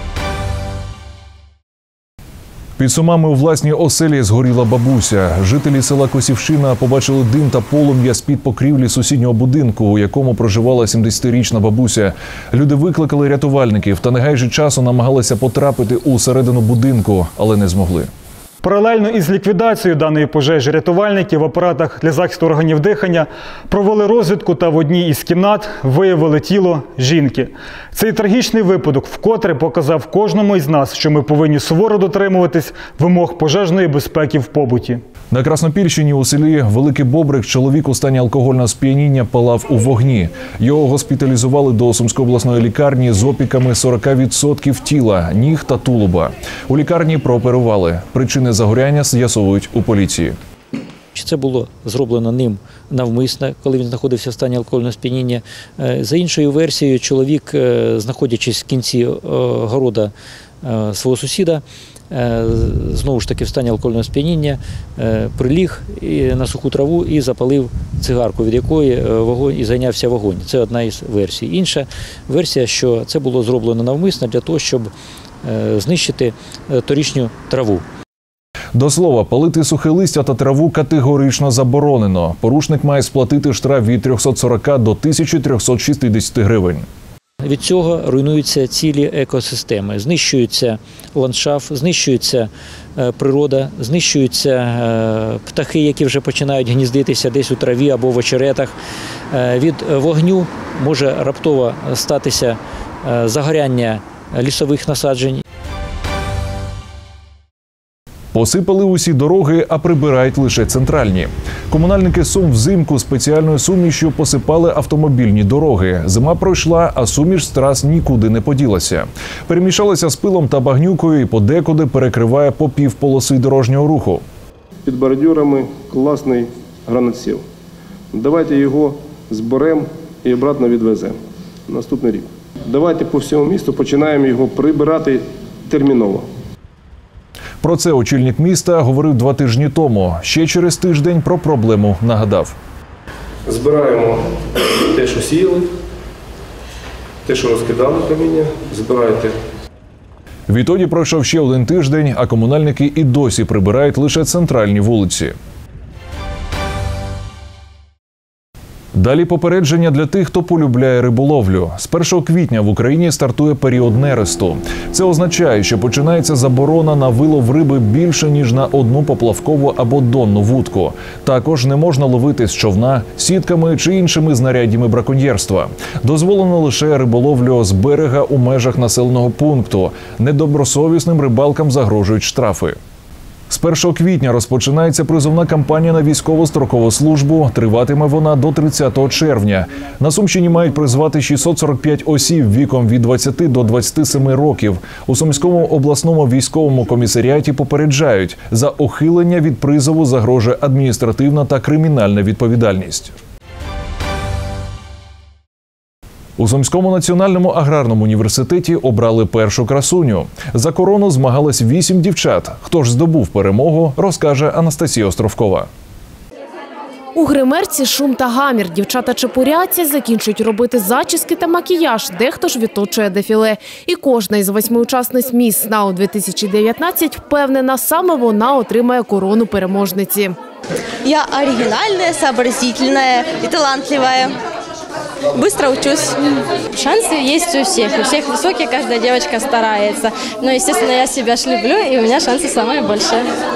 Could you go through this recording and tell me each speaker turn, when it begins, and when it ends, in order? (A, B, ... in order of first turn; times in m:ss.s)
0:02.8-0:18.1 A
0:18.6-0:35.0 B
0:35.3-0:50.4 A
0:51.1-1:14.9 C
1:15.4-1:17.8 C
1:18.8-1:26.9 A
1:27.4-1:38.7 C
1:39.3-1:45.4 C
1:48.3-2:04.2 A
2:04.8-2:07.4 D
2:08.1-2:11.2 D
2:11.7-2:16.2 D
2:17.6-2:22.6 A
2:23.5-2:24.2 D
2:24.9-2:25.7 D
2:27.2-2:29.3 D
2:30.5-2:35.4 A
2:39.0-3:02.8 A
3:03.5-3:23.1 A
3:26.4-3:35.7 A
3:37.1-3:50.3 E
3:51.0-3:54.3 F
3:55.4-3:56.1 F
3:56.8-4:03.2 G